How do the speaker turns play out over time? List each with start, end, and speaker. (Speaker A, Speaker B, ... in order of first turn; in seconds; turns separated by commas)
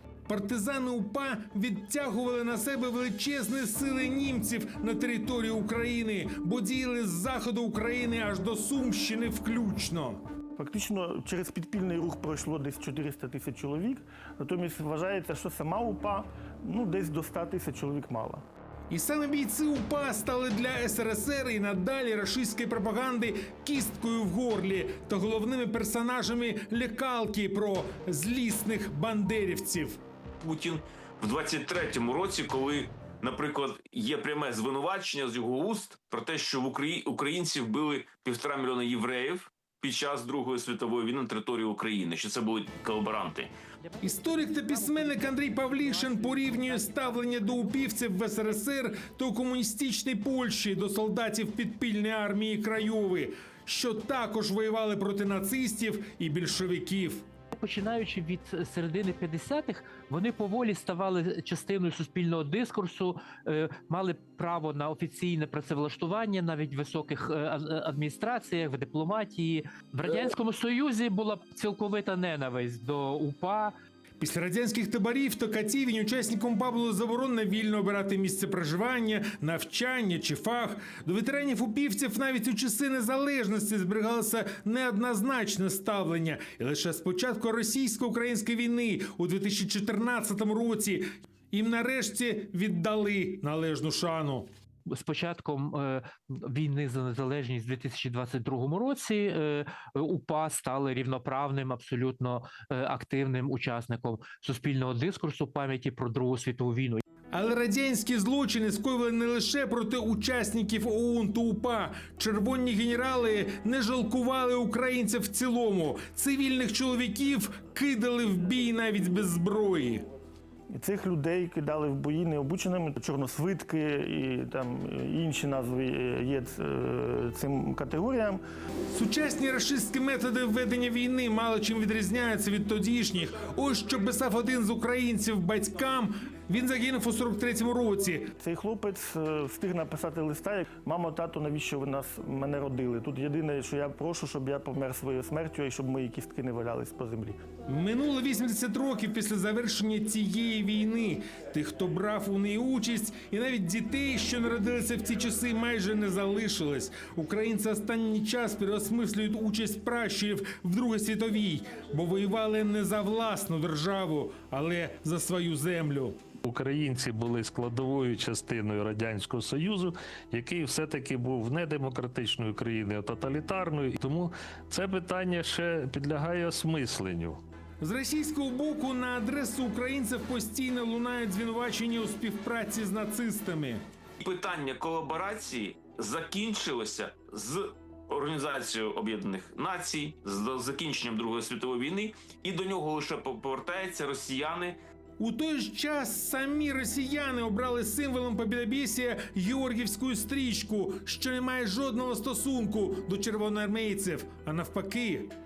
Speaker A: 0.3-10.2, Speaker B: 10.6-18.4, Speaker A: 18.9-30.0, Speaker C: 30.4-43.5, Speaker D: 43.8-47.8, Speaker A: 44.0-57.3, Speaker D: 57.5-73.7, Speaker A: 74.2-94.5, Speaker D: 94.9-107.0, Speaker A: 107.3-120.0, Speaker B: 120.7-128.4, Speaker A: 128.9-138.3, Speaker B: 138.4-147.4, Speaker A: 147.7-166.2, Speaker E: 166.4-177.4, Speaker A: 177.8-183.8, Speaker C: 184.2-194.8, Speaker A: 195.2-205.3